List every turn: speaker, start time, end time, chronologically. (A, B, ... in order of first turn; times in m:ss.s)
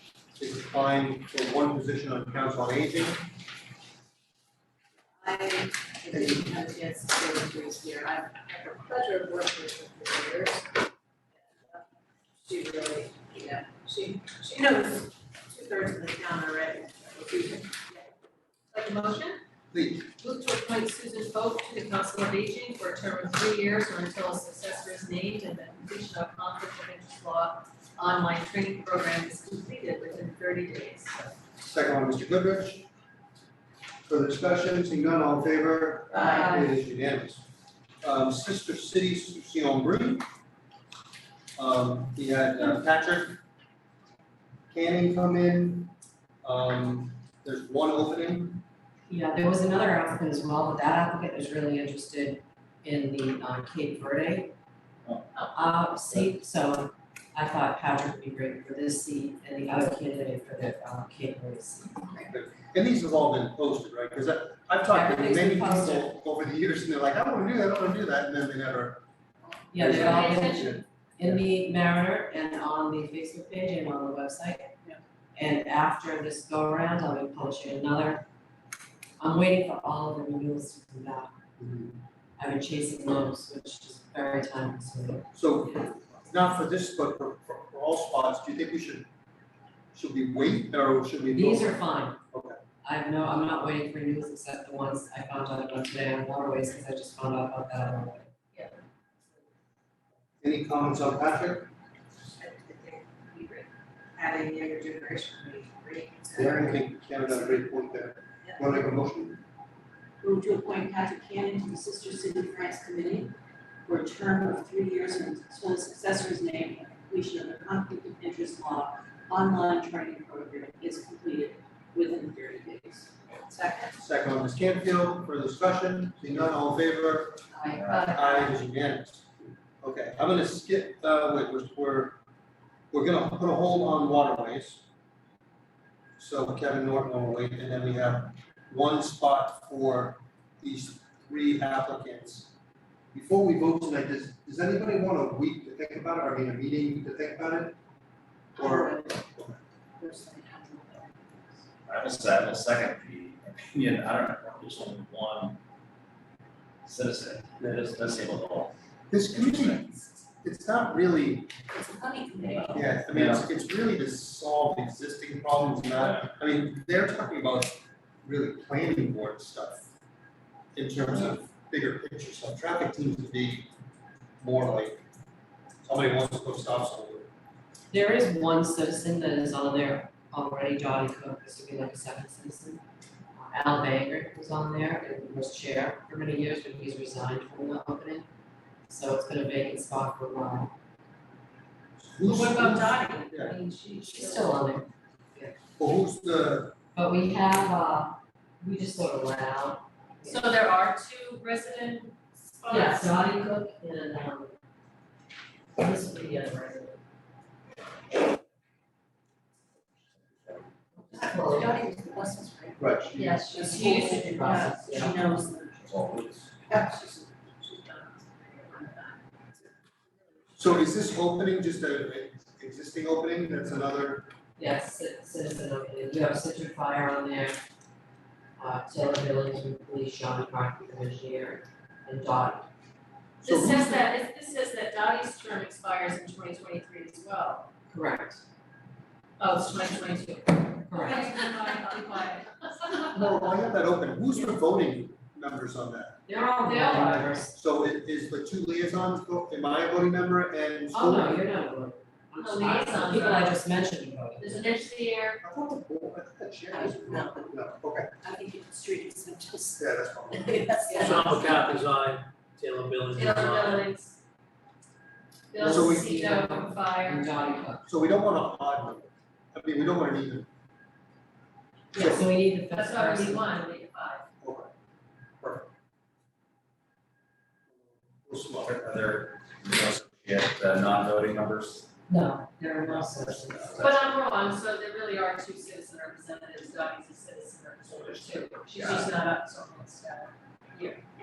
0:00.4-0:03.3 A
0:05.2-0:10.7 B
0:06.1-0:06.5 A
0:12.4-0:14.7 B
0:14.7-0:17.7 C
0:17.8-0:18.0 B
0:18.7-0:19.4 C
0:19.7-0:20.1 A
0:20.2-0:31.3 C
0:31.6-0:32.9 A
0:34.1-0:37.5 A
0:36.1-0:36.5 B
0:36.1-0:36.7 C
0:38.0-0:40.2 A
0:41.6-0:43.4 A
0:44.7-0:48.6 A
0:49.1-0:54.5 D
0:55.5-1:02.1 D
1:02.2-1:09.0 A
1:04.9-1:06.1 D
1:09.7-1:10.6 D
1:09.7-1:11.4 A
1:09.8-1:10.8 C
1:11.2-1:14.7 D
1:15.4-1:18.2 D
1:19.2-1:21.3 D
1:21.6-1:22.0 A
1:22.4-1:25.3 D
1:25.3-1:29.1 A
1:29.9-1:32.6 A
1:31.3-1:32.2 D
1:32.8-1:38.3 D
1:40.4-1:41.7 A
1:42.4-1:47.6 B
1:46.4-1:49.4 A
1:50.2-2:04.0 B
2:04.0-2:07.4 A
2:07.5-2:07.8 B
2:07.8-2:08.1 E
2:07.9-2:08.5 C
2:08.0-2:09.3 A
2:09.8-2:12.2 A
2:12.9-2:14.8 A
2:16.2-2:22.5 A
2:23.1-2:27.8 A
2:28.6-2:29.6 A
2:28.6-2:29.2 B
2:30.0-2:31.6 B
2:31.9-2:35.6 E
2:36.8-2:38.8 E
2:39.1-2:41.5 A
2:39.3-2:39.9 E
2:41.8-2:42.9 B
2:42.7-2:49.9 A
2:43.1-2:43.4 E
2:50.8-2:53.7 A
2:54.4-2:55.0 A
2:55.8-2:57.3 A
2:57.9-3:02.8 D
3:03.4-3:08.3 D
3:08.9-3:10.7 D
3:12.0-3:13.6 A
3:12.2-3:14.6 C
3:13.8-3:15.6 D
3:15.8-3:16.8 A
3:17.0-3:20.5 D
3:20.3-3:23.1 C
3:22.7-3:24.6 D
3:25.8-3:27.0 D
3:31.0-3:32.0 D
3:31.6-3:38.0 B
3:32.8-3:33.5 A
3:33.2-3:34.7 C
3:34.2-3:35.2 D
3:35.9-3:36.5 E
3:38.1-3:39.2 C
3:40.6-3:44.3 A
3:44.6-3:47.6 D
3:48.6-3:52.7 D
3:53.4-3:57.7 C
3:53.4-3:54.1 A
3:57.9-3:58.4 D
3:59.4-4:03.3 C
4:00.9-4:01.4 D
4:03.0-4:06.2 A
4:06.3-4:07.5 D
4:06.6-4:07.4 C
4:07.5-4:11.4 A
4:10.9-4:14.8 D
4:12.4-4:13.6 C
4:14.4-4:15.4 C
4:15.4-4:18.1 A
4:16.7-4:17.4 B
4:18.2-4:19.8 B
4:19.8-4:20.7 A
4:20.4-4:21.6 B
4:20.9-4:21.2 C
4:21.0-4:23.9 F
4:23.1-4:24.2 C
4:25.5-4:27.7 C
4:25.6-4:27.8 D
4:25.6-4:26.0 A
4:27.9-4:30.5 A
4:31.9-4:33.5 D
4:31.9-4:32.2 A
4:32.7-4:34.3 C
4:34.4-4:34.7 A
4:35.4-4:35.7 A
4:37.8-4:38.8 A
4:38.6-4:41.9 E
4:42.1-4:43.8 D
4:42.9-4:44.1 E
4:43.8-4:51.0 C
4:48.8-4:49.1 E